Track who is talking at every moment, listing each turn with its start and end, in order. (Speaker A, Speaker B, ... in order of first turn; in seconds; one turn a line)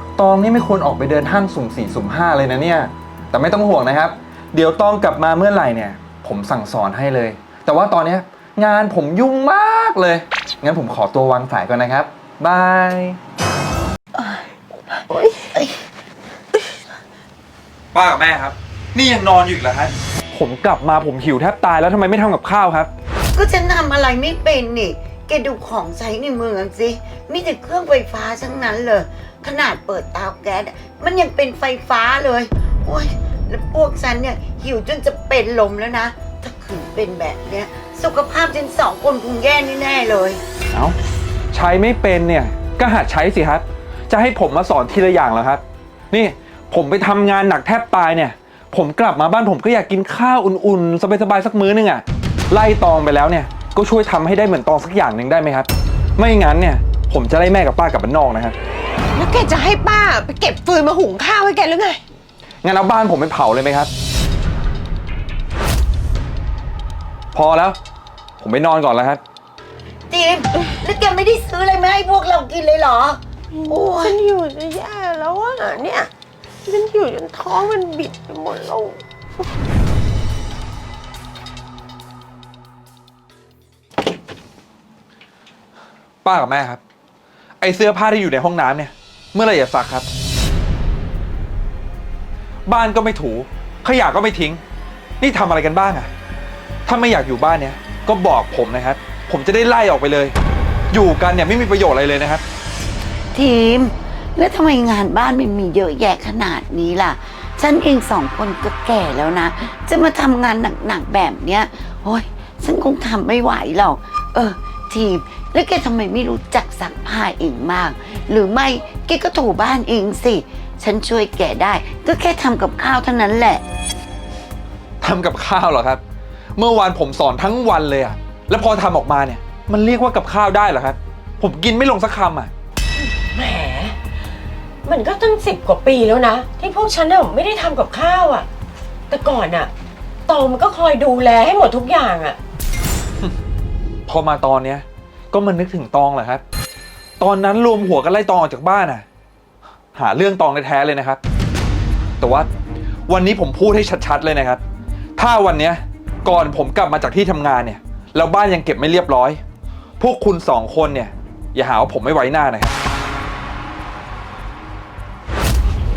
Speaker A: 0.2-13.2
Speaker B: 14.2-14.4
Speaker B: 14.9-15.8
Speaker A: 17.9-22.9
Speaker B: 23.3-40.4
Speaker A: 41.5-58.5
Speaker C: 59.1-62.0
Speaker A: 62.6-63.9
Speaker A: 67.3-67.8
Speaker A: 68.4-69.2
Speaker B: 70.1-74.2
Speaker C: 73.5-76.1
Speaker C: 76.7-79.0
Speaker A: 86.2-86.8
Speaker A: 87.6-90.1
Speaker A: 92.7-94.6
Speaker A: 95.2-96.1
Speaker A: 96.8-100.3
Speaker A: 100.9-102.4
Speaker B: 103.3-123.6
Speaker A: 125.0-126.0
Speaker A: 126.5-132.5
Speaker C: 133.0-134.0
Speaker C: 134.8-138.5
Speaker C: 139.1-139.7
Speaker C: 140.3-142.4
Speaker A: 144.1-146.4
Speaker A: 147.2-149.0
Speaker A: 149.9-151.2
Speaker A: 152.2-152.5
Speaker A: 153.1-154.6
Speaker A: 155.2-159.4
Speaker A: 160.0-162.8